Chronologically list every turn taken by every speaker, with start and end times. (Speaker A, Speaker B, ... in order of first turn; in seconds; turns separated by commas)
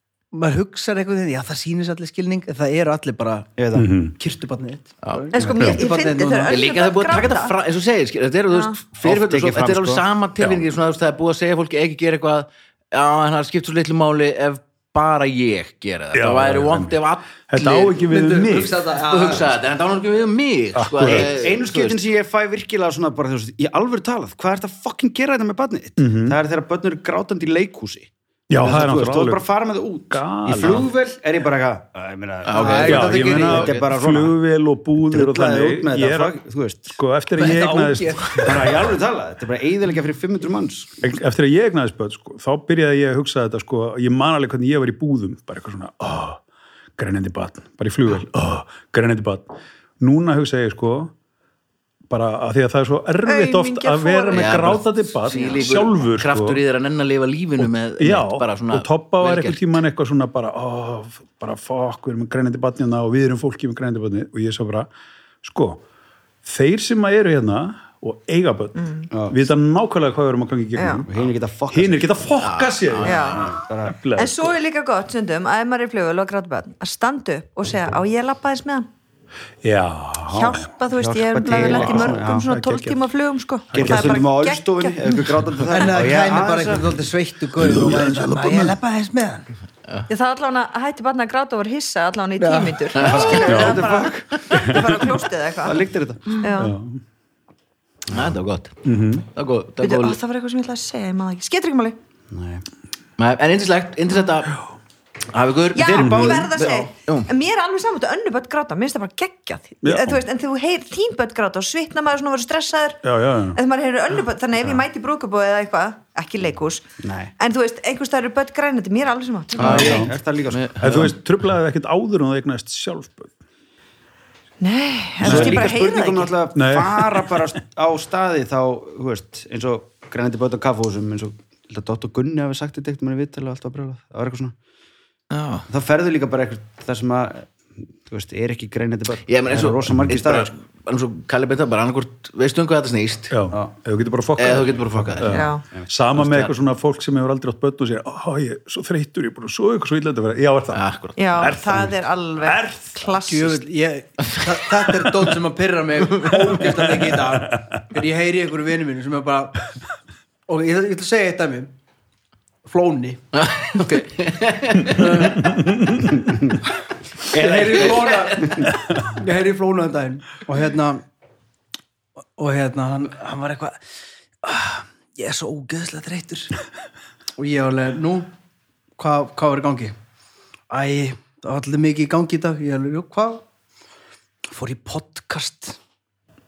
Speaker A: 0.3-3.5, Speaker B: 3.6-3.9, Speaker C: 3.7-4.2, Speaker A: 4.2-6.5, Speaker D: 5.0-5.3, Speaker E: 5.3-7.5, Speaker C: 5.5-5.8, Speaker D: 6.5-18.0, Speaker E: 8.5-8.8, Speaker B: 9.0-10.0, Speaker C: 16.1-18.9, Speaker A: 18.1-19.5, Speaker D: 19.0-22.0, Speaker C: 20.8-21.3, Speaker B: 21.0-34.4, Speaker C: 26.0-26.4, Speaker C: 28.5-29.4, Speaker C: 30.1-30.9, Speaker D: 32.5-33.9, Speaker A: 32.5-33.7, Speaker C: 32.8-36.4, Speaker B: 35.1-37.0, Speaker C: 36.9-38.7, Speaker A: 37.4-38.7, Speaker B: 38.4-40.9, Speaker C: 41.0-46.4, Speaker C: 47.0-51.1, Speaker C: 52.1-56.6, Speaker E: 53.3-55.6, Speaker D: 54.3-59.8, Speaker C: 57.6-64.9, Speaker C: 65.4-65.8, Speaker C: 66.5-68.8, Speaker E: 68.8-69.1, Speaker B: 69.1-69.4, Speaker C: 69.3-74.5, Speaker E: 70.8-71.0, Speaker B: 71.1-72.2, Speaker D: 72.4-73.4, Speaker E: 73.0-73.5, Speaker B: 73.3-73.9, Speaker E: 74.2-78.9, Speaker C: 79.6-80.7, Speaker E: 80.3-85.2, Speaker B: 80.9-82.5, Speaker C: 81.5-83.0, Speaker C: 83.7-84.2, Speaker B: 83.7-86.9, Speaker A: 85.7-89.5, Speaker C: 87.6-88.8, Speaker E: 90.1-95.8, Speaker A: 92.4-92.9, Speaker D: 93.0-94.0, Speaker B: 93.0-94.2, Speaker C: 93.5-93.9, Speaker C: 94.6-94.9, Speaker B: 94.8-95.0, Speaker B: 95.6-96.4, Speaker E: 96.4-96.7, Speaker C: 96.6-97.0, Speaker D: 98.1-100.2, Speaker C: 98.8-99.3, Speaker E: 99.8-102.0, Speaker B: 102.3-102.6, Speaker D: 103.2-104.5, Speaker D: 105.3-107.3, Speaker E: 105.7-113.0, Speaker B: 105.8-106.7, Speaker C: 106.0-106.4, Speaker C: 109.8-110.2, Speaker C: 113.0-113.6, Speaker E: 113.5-116.8, Speaker B: 117.0-117.3, Speaker E: 117.4-120.1, Speaker B: 119.6-121.1, Speaker D: 119.6-121.1, Speaker C: 119.7-120.1, Speaker C: 120.8-123.3, Speaker E: 124.6-126.3, Speaker B: 125.2-134.6, Speaker C: 125.2-125.7, Speaker C: 126.5-127.5, Speaker D: 135.3-135.7, Speaker B: 135.7-137.5, Speaker B: 138.1-140.5, Speaker D: 139.3-143.3, Speaker C: 143.3-153.0, Speaker D: 144.4-145.4, Speaker E: 145.3-145.6, Speaker D: 146.2-146.5, Speaker D: 150.7-151.4, Speaker E: 151.2-153.6, Speaker A: 153.2-159.6, Speaker C: 156.6-157.8, Speaker A: 160.5-161.7, Speaker A: 162.7-163.8, Speaker D: 163.3-165.3, Speaker A: 164.8-165.6, Speaker C: 164.9-166.3, Speaker A: 167.3-171.0, Speaker B: 167.4-167.9, Speaker D: 167.7-168.4, Speaker A: 172.4-173.8, Speaker A: 174.4-176.5, Speaker A: 177.4-178.3, Speaker A: 179.0-180.0, Speaker A: 180.7-183.4, Speaker A: 184.5-185.8